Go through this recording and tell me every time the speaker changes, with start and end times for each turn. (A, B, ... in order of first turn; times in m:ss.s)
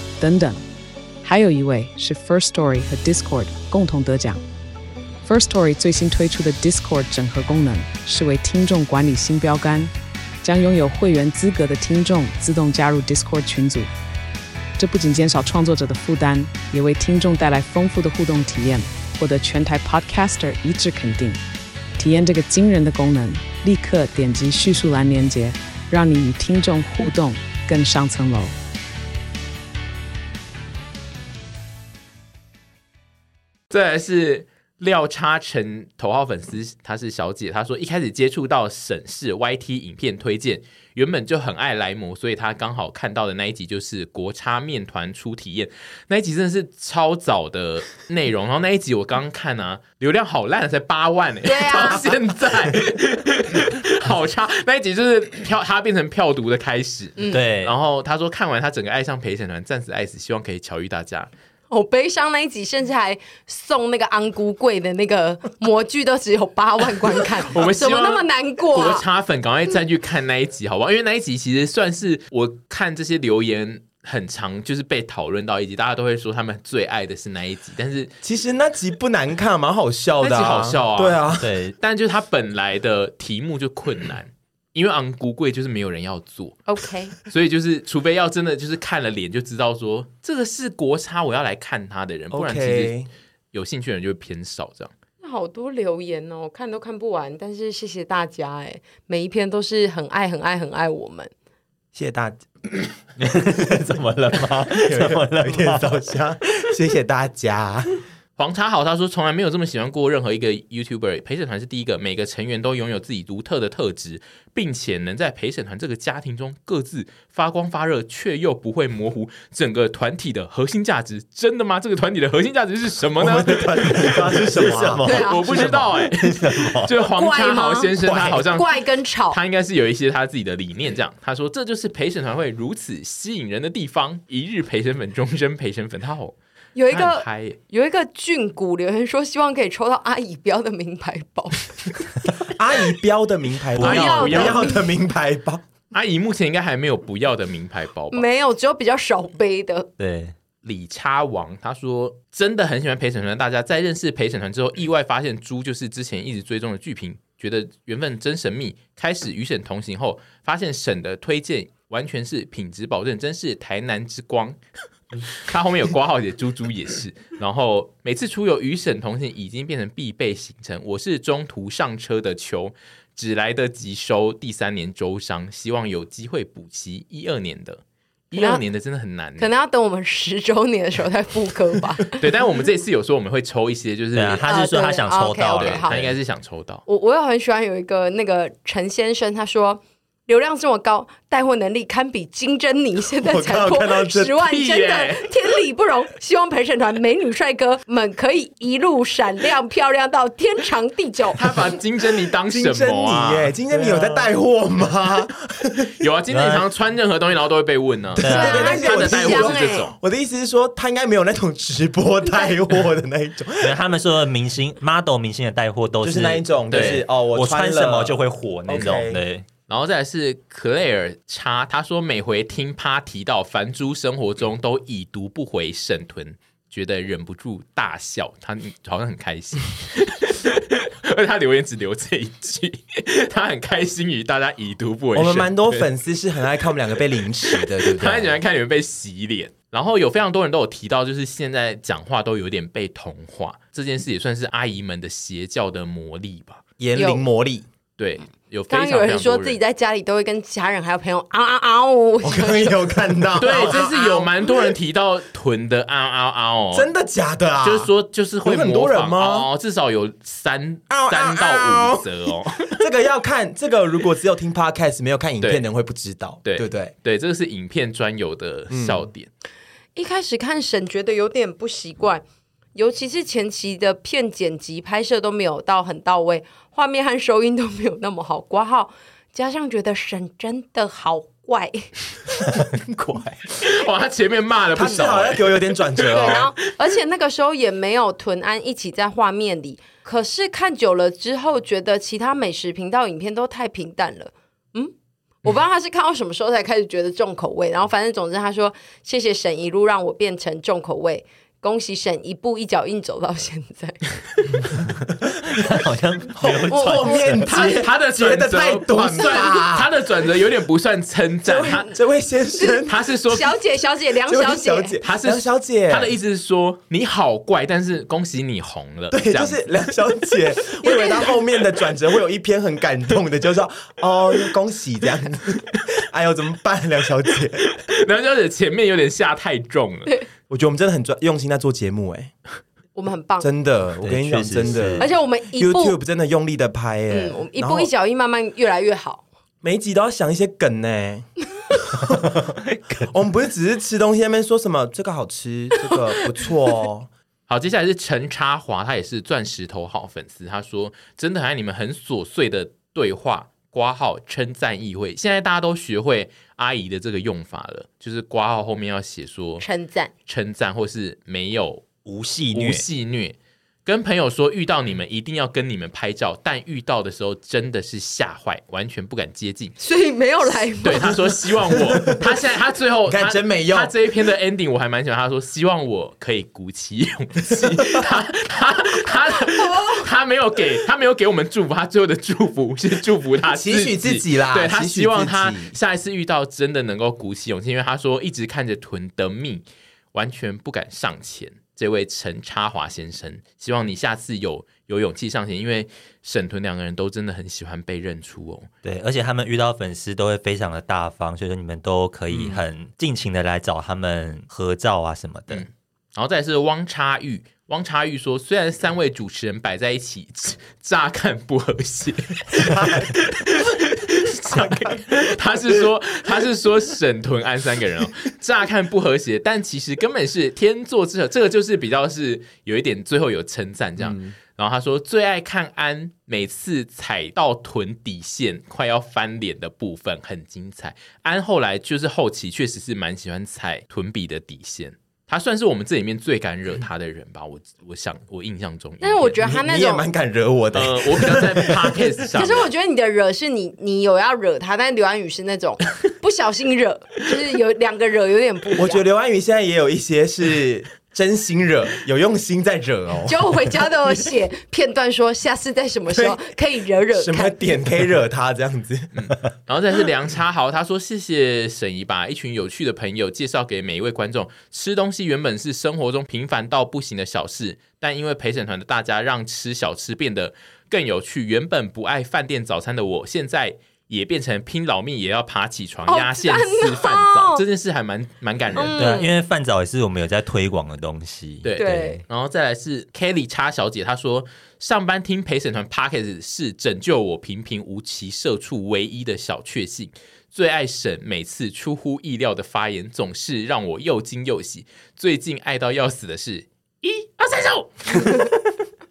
0:00.2-0:00.6 A
0:01.2-0:04.4 A
0:05.2-0:13.9 A
0:14.8-0:21.4 A
0:22.0-0:28.5 A
0:33.7-1:01.3 B
0:51.4-0:52.1 C
0:57.2-0:57.4 C
0:57.3-0:57.7 D
1:01.7-1:09.0 C
1:07.5-1:18.1 B
1:18.2-1:21.5 E
1:20.2-1:21.2 B
1:21.4-1:21.8 D
1:21.8-1:26.6 B
1:26.7-1:27.1 C
1:27.2-1:33.0 B
1:32.3-1:33.1 E
1:33.5-1:34.9 B
1:35.2-1:41.3 C
1:42.0-1:42.4 E
1:43.2-1:46.0 D
1:44.9-1:48.0 E
1:48.4-2:04.1 B
2:03.2-2:05.0 E
2:03.9-2:06.9 D
2:05.0-2:05.7 C
2:05.1-2:08.8 B
2:07.2-2:09.4 C
2:08.0-2:08.5 E
2:09.3-2:16.4 B
2:16.8-2:21.7 C
2:16.9-2:17.6 B
2:22.5-2:25.6 E
2:23.8-2:24.6 D
2:23.8-2:24.6 B
2:23.8-2:24.8 C
2:25.9-2:28.2 B
2:28.1-2:29.9 C
2:30.0-2:30.4 D
2:30.6-2:44.6 B
2:45.3-2:59.5 B
2:58.3-2:58.6 C
2:59.4-3:02.2 C
3:02.2-3:04.5 B
3:04.2-3:06.2 D
3:04.4-3:06.0 C
3:05.6-3:06.8 B
3:06.9-3:21.4 C
3:13.2-3:14.4 E
3:14.4-3:15.3 B
3:21.4-3:23.5 B
3:22.5-3:25.9 E
3:23.7-3:24.3 D
3:26.0-3:30.0 B
3:26.3-3:26.6 D
3:28.2-3:33.7 E
3:28.2-3:28.8 D
3:28.3-3:29.9 C
3:33.6-3:39.5 D
3:36.0-3:39.2 E
3:36.7-3:37.0 B
3:38.7-3:39.0 B
3:39.7-3:55.9 B
3:55.1-3:58.4 E
3:57.4-4:06.6 B
4:06.8-4:07.6 E
4:07.0-4:07.2 C
4:08.0-4:09.6 B
4:08.7-4:13.8 C
4:12.2-4:14.3 E
4:13.4-4:16.9 B
4:16.7-4:17.9 E
4:17.6-4:22.8 B
4:18.4-4:19.5 E
4:20.9-4:22.1 E
4:22.7-4:26.9 E
4:26.4-4:29.3 B
4:28.7-4:29.1 E
4:30.0-4:32.2 C
4:32.8-4:41.9 C
4:42.6-4:43.4 E
4:43.6-4:45.8 B
4:44.8-4:46.5 E
4:46.0-5:04.0 C
5:05.5-5:07.4 D
5:06.3-5:09.9 E
5:06.7-5:07.5 C
5:07.5-5:11.9 B
5:11.4-5:13.0 E
5:12.6-5:15.0 C
5:12.9-5:13.6 B
5:14.3-5:16.2 E
5:15.0-5:19.8 B
5:19.1-5:27.7 E
5:20.8-5:21.4 C
5:27.8-5:30.2 B
5:30.5-5:32.3 E
5:33.0-5:33.5 C
5:33.4-5:37.9 E
5:34.0-5:35.1 D
5:35.0-5:36.0 C
5:37.1-5:39.2 C
5:39.6-5:47.1 E
5:47.5-5:59.6 B
5:59.6-6:00.1 C
6:00.3-6:01.9 B
6:02.0-6:02.8 D
6:02.5-6:09.8 B
6:09.8-6:11.3 C
6:10.8-6:38.7 B
6:11.7-6:12.4 E
6:13.1-6:13.9 E
6:19.4-6:20.1 C
6:23.5-6:25.7 E
6:38.8-6:45.6 D
6:45.5-7:19.4 B
6:52.5-6:53.2 E
6:54.5-6:55.0 E
7:04.0-7:04.3 E
7:19.0-7:20.1 C
7:19.4-7:22.1 E
7:20.7-7:22.7 B
7:22.3-7:29.0 C
7:28.8-7:33.4 E
7:33.3-7:37.5 C
7:36.1-7:36.4 E
7:37.1-7:39.1 E
7:39.2-7:59.0 B
7:56.1-7:57.6 C
7:58.8-7:59.3 C
7:59.0-8:02.2 D
8:01.6-8:18.5 B
8:01.8-8:02.2 C